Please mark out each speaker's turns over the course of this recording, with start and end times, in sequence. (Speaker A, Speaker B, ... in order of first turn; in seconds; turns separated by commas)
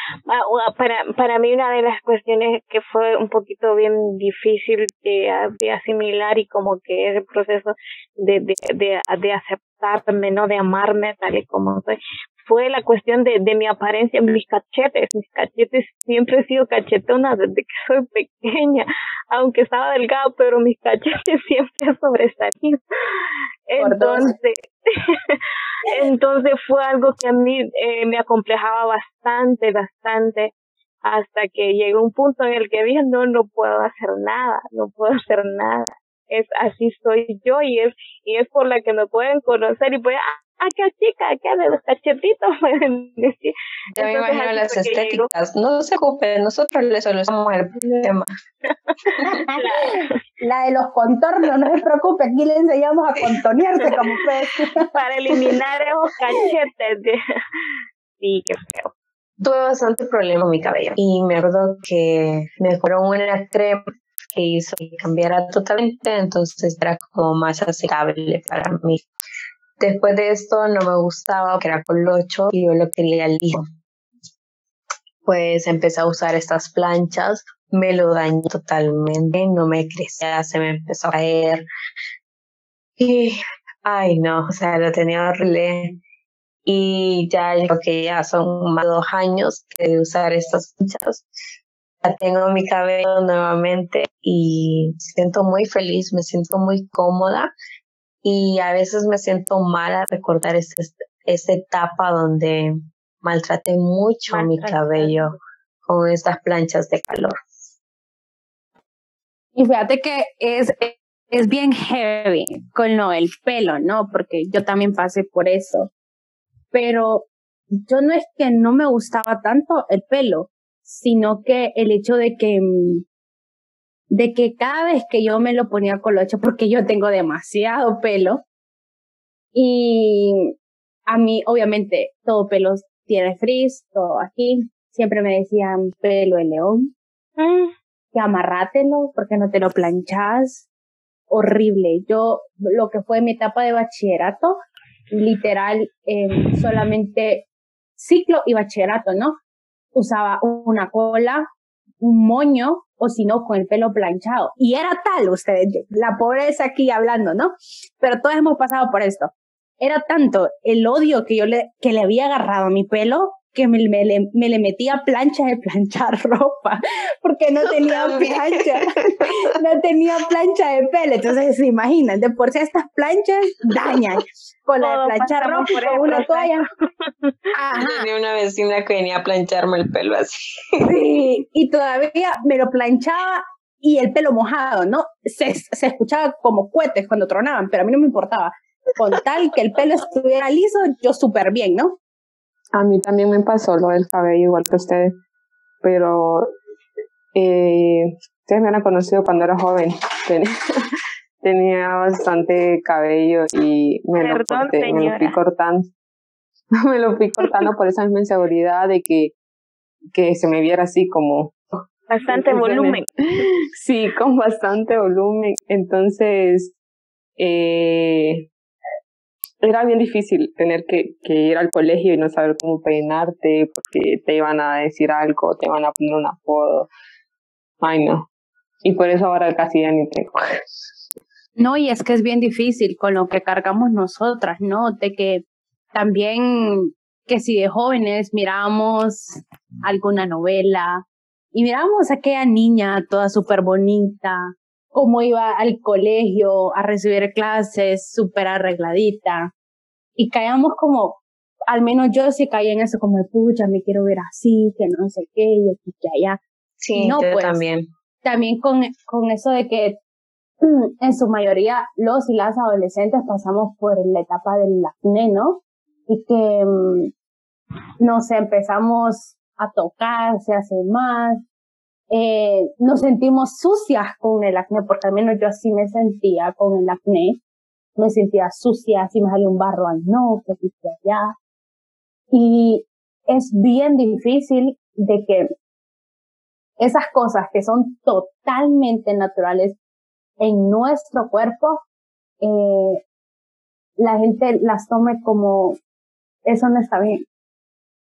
Speaker A: 0.3-30.5, Speaker B: 23.8-24.4, Speaker A: 31.0-45.3, Speaker C: 44.0-48.3, Speaker A: 48.7-50.2, Speaker B: 49.2-55.5, Speaker A: 54.9-58.9, Speaker C: 59.4-63.8, Speaker C: 64.3-69.0, Speaker C: 69.8-73.7, Speaker C: 75.2-81.7, Speaker C: 83.0-86.0, Speaker C: 86.7-91.3, Speaker C: 92.0-97.5, Speaker C: 98.2-107.4, Speaker A: 104.3-105.3, Speaker B: 109.6-115.9, Speaker B: 116.7-117.3, Speaker B: 117.9-123.0, Speaker B: 124.1-128.4, Speaker B: 129.5-130.5, Speaker B: 131.1-136.9, Speaker A: 137.4-137.7, Speaker B: 138.1-140.7, Speaker B: 141.3-144.6, Speaker B: 145.1-147.5, Speaker B: 148.0-149.4, Speaker B: 149.9-151.5, Speaker B: 152.0-176.7, Speaker C: 167.8-169.3, Speaker A: 174.8-177.4, Speaker B: 177.5-178.1, Speaker C: 177.8-180.9, Speaker B: 180.8-192.0, Speaker D: 192.8-195.2, Speaker D: 195.8-196.5, Speaker D: 197.3-200.8, Speaker D: 201.4-205.9, Speaker A: 204.2-205.4, Speaker D: 206.8-209.3, Speaker D: 210.1-211.6, Speaker A: 212.1-213.1, Speaker D: 212.3-213.0, Speaker D: 213.7-216.8, Speaker D: 217.4-218.5, Speaker D: 219.6-226.9, Speaker D: 227.8-228.3, Speaker D: 228.8-230.4, Speaker B: 231.6-249.5, Speaker B: 250.2-256.4, Speaker C: 256.8-257.9, Speaker B: 256.9-257.6, Speaker B: 258.2-260.0, Speaker B: 260.6-267.1, Speaker B: 268.0-271.4, Speaker B: 272.1-277.4, Speaker B: 278.0-281.3, Speaker B: 282.3-285.5, Speaker B: 286.8-289.8, Speaker B: 290.4-291.8, Speaker B: 292.4-293.0, Speaker B: 294.0-295.8, Speaker B: 296.5-297.2